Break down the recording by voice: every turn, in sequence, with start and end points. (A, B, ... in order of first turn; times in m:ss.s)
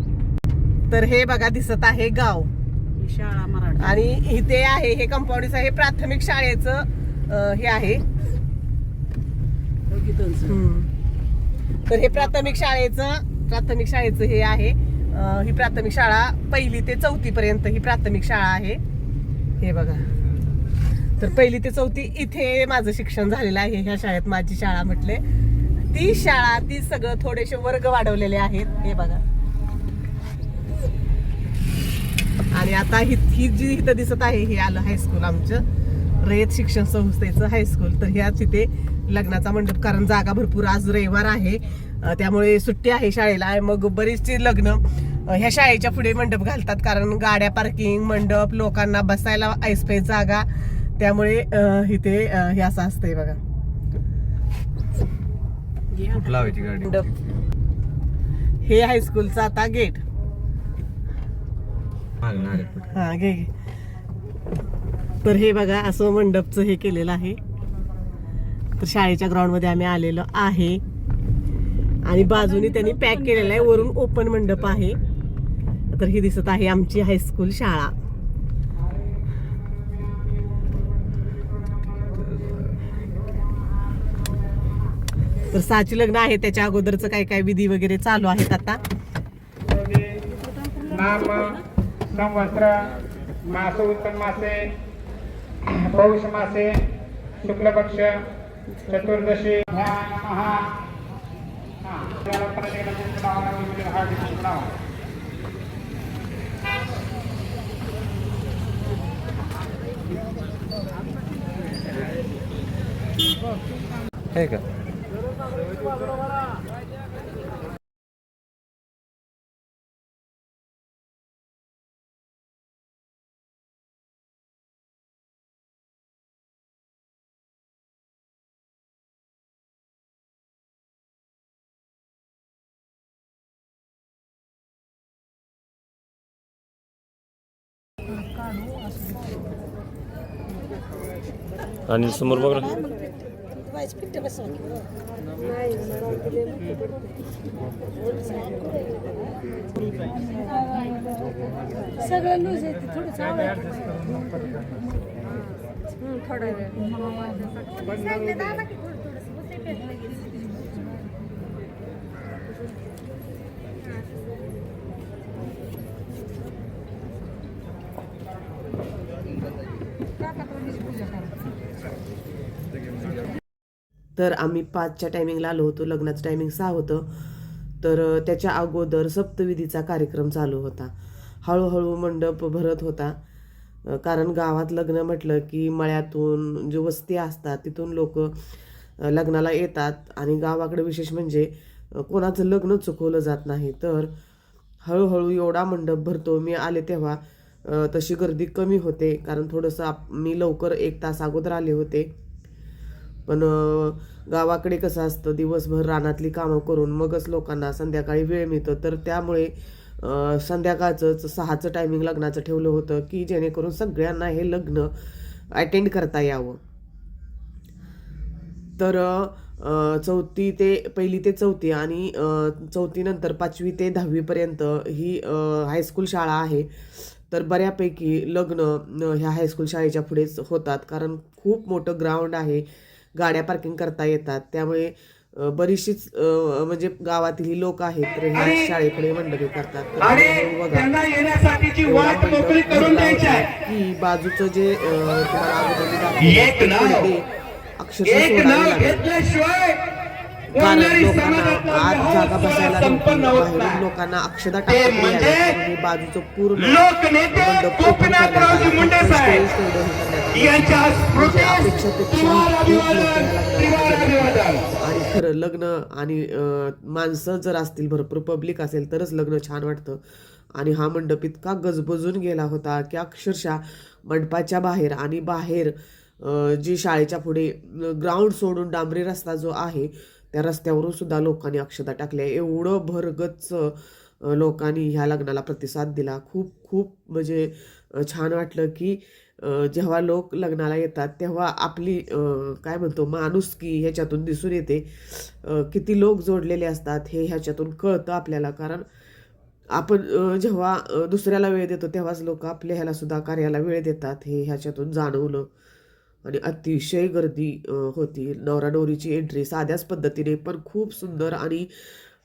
0:00.9-0:02.5 A
0:03.0-0:04.0 B
0:03.8-0:08.0 A
0:09.9-0:10.6 B
0:10.4-0:10.9 A
0:11.9-0:18.8 A
0:19.6-0:20.0 A
0:21.2-0:25.2 A
0:25.8-0:29.2 A
0:32.5-0:35.6 A
0:36.2-0:50.5 A
0:51.0-0:53.4 A
0:55.9-0:57.0 B
0:56.1-0:57.3 C
0:58.6-1:00.0 A
1:02.2-1:02.9 C
1:02.9-1:03.5 A
1:05.2-1:07.4 A
1:08.8-1:10.8 A
1:12.0-1:15.0 A
1:12.2-1:13.9 B
1:15.9-1:17.9 A
1:25.5-1:28.8 A
1:29.7-1:30.2 D
1:30.8-1:31.4 B
1:30.9-1:31.6 D
1:32.1-1:32.9 D
1:33.5-1:34.8 D
1:35.7-1:36.9 D
1:37.4-1:38.3 D
1:38.9-1:40.8 D
1:41.8-1:44.8 D
1:54.3-1:54.7 C
2:21.9-2:22.8 C
2:32.1-2:33.8 B
2:38.1-2:38.7 B
2:54.2-2:57.1 E
2:57.8-3:00.9 E
3:01.4-3:03.2 E
3:03.9-3:08.3 E
3:09.0-3:14.1 E
3:14.8-3:22.1 E
3:23.3-3:34.9 E
3:35.5-3:36.6 E
3:38.8-3:52.6 E
3:53.2-4:00.9 E
3:58.4-3:58.7 C
4:00.0-4:03.5 C
4:01.8-4:07.3 E
4:06.3-4:07.0 C
4:07.8-4:09.2 E
4:08.1-4:09.8 C
4:10.5-4:30.0 E
4:10.5-4:13.8 C
4:14.7-4:15.5 C
4:16.7-4:19.4 C
4:20.3-4:24.7 C
4:30.6-4:58.8 E
4:59.7-5:05.5 E
5:06.2-5:11.7 E